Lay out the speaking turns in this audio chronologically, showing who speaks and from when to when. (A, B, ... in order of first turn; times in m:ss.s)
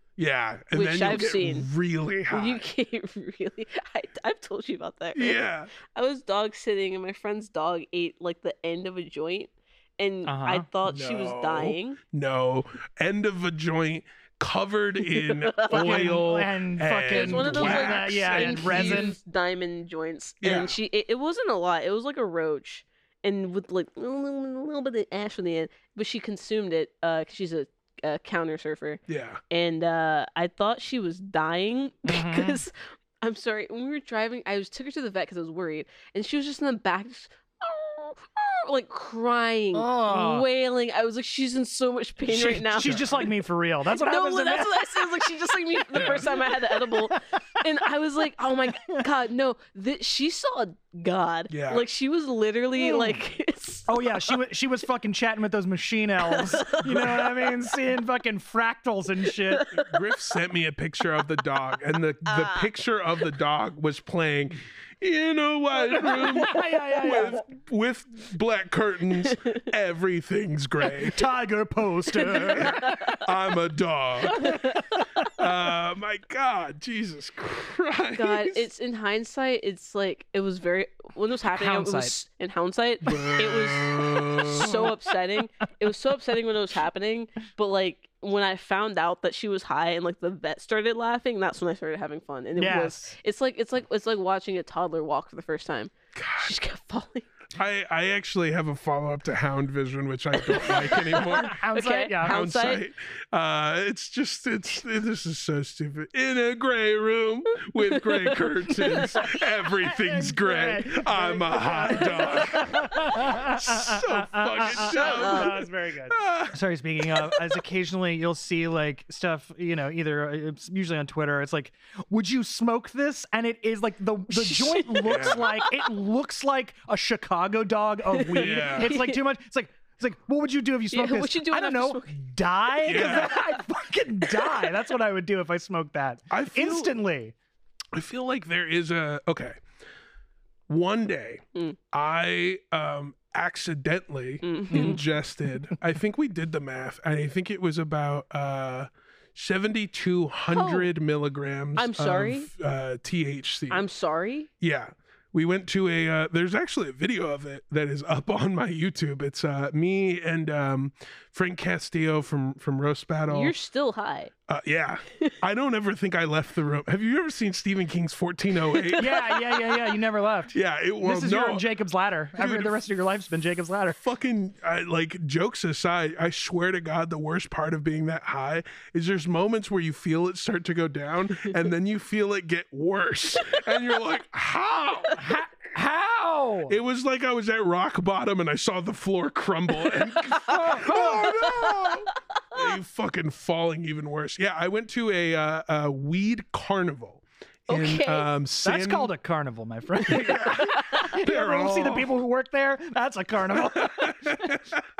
0:00.2-0:02.7 A
0:00.7-0:01.7 B
0:02.3-0:12.0 B
0:05.2-0:05.7 A
0:10.3-0:10.7 C
0:10.8-0:19.1 A
0:15.1-0:16.2 B
0:15.7-0:19.2 C
0:17.1-0:43.2 B
0:20.4-0:20.8 A
0:29.1-0:29.4 A
0:32.0-0:32.6 C
0:39.7-0:40.5 C
0:42.3-0:45.3 C
0:42.8-0:43.1 A
0:43.9-0:54.0 B
0:45.9-0:46.3 A
0:46.0-0:47.2 C
0:51.5-0:51.8 A
0:52.8-0:53.2 C
0:53.9-0:59.7 C
0:56.2-0:57.4 B
0:59.5-0:59.9 B
0:59.8-1:11.3 A
1:02.3-1:02.7 B
1:05.9-1:07.4 C
1:11.0-1:13.2 C
1:12.2-1:14.7 A
1:12.4-1:13.2 B
1:14.3-1:14.7 C
1:14.4-1:15.0 B
1:15.3-1:18.6 A
1:18.2-1:37.3 B
1:21.5-1:22.2 C
1:23.1-1:24.8 A
1:24.5-1:24.9 C
1:32.6-1:33.1 C
1:36.2-1:36.5 A
1:37.6-1:41.6 A
1:40.5-1:42.8 B
1:41.4-1:42.4 C
1:42.2-1:56.6 A
1:48.0-1:49.1 B
1:49.8-2:17.4 C
1:54.9-1:55.5 B
2:04.3-2:05.8 B
2:05.0-2:05.4 A
2:08.1-2:09.2 B
2:08.3-2:09.0 A
2:10.9-2:12.1 B
2:12.8-2:13.4 A
2:16.3-2:16.9 A
2:17.9-2:19.6 A
2:20.7-2:33.8 A
2:24.4-2:25.0 B
2:24.7-2:25.0 C
2:30.5-2:30.9 B
2:31.8-2:32.5 B
2:33.7-2:34.5 B
2:34.6-2:43.5 A
2:43.3-2:44.3 B
2:44.5-2:49.4 A
2:48.7-2:49.1 B
2:49.0-2:54.0 C
2:50.5-2:51.7 A
2:52.4-2:52.8 A
2:54.0-3:05.4 A
3:05.2-3:06.8 C
3:06.7-3:19.1 A
3:10.3-3:11.7 C
3:17.7-3:18.3 B
3:18.6-3:24.6 C
3:20.0-3:22.1 A
3:23.6-3:24.8 A